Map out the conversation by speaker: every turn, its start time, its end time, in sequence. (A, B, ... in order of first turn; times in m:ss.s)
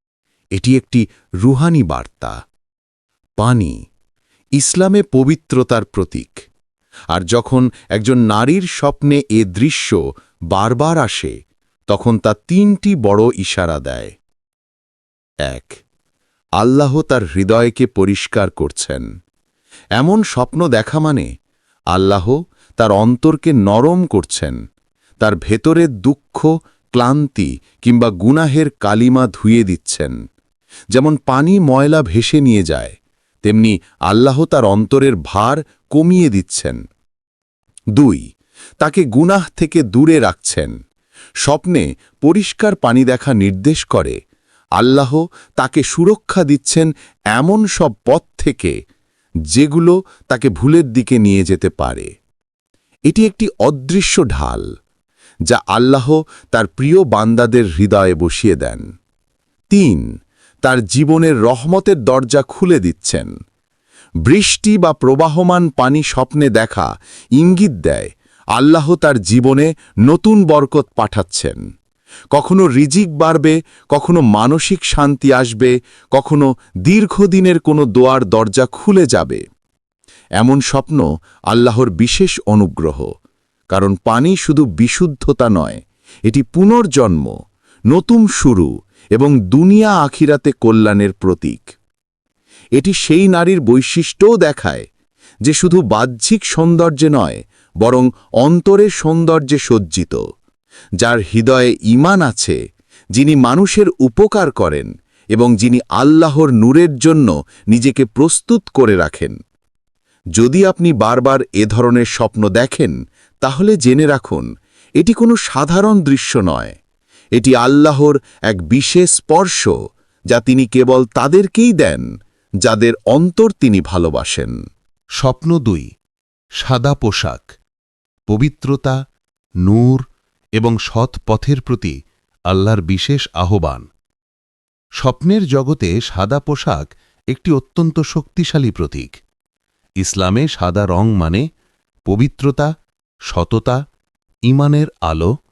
0:00.6-0:02.4 A
0:03.4-0:03.8 A
0:04.6-0:06.5 A
0:07.1-0:10.0 A
0:10.5-0:11.4 A
0:11.9-0:14.1 A
0:15.4-0:15.8 A
0:16.6-0:19.0 A
0:20.0-0:21.3 A
0:21.9-0:24.6 A
0:25.2-0:30.2 A
0:30.9-0:36.8 A
0:38.0-0:38.2 A
0:38.8-0:40.7 A
0:41.4-0:44.2 A
0:44.8-0:48.7 A
0:49.5-0:52.1 A
0:53.1-0:54.7 A
0:55.5-0:58.8 A
0:59.7-1:00.0 A
1:00.6-1:03.3 A
1:04.3-1:11.6 A
1:12.3-1:19.4 A
1:20.4-1:23.1 A
1:23.7-1:27.3 A
1:27.9-1:31.7 A
1:32.8-1:34.9 A
1:35.4-1:40.2 A
1:41.0-1:42.6 A
1:43.2-1:49.4 A
1:50.4-1:54.5 A
1:55.0-1:56.8 A
1:57.4-1:59.7 A
2:00.3-2:02.1 A
2:02.6-2:04.6 A
2:05.2-2:05.9 A
2:06.6-2:07.5 A
2:08.3-2:09.0 A
2:09.6-2:10.0 A
2:10.6-2:12.0 A
2:12.5-2:13.9 A
2:15.0-2:19.1 A
2:20.0-2:21.4 A
2:22.1-2:22.7 A
2:23.3-2:23.8 A
2:24.5-2:25.3 A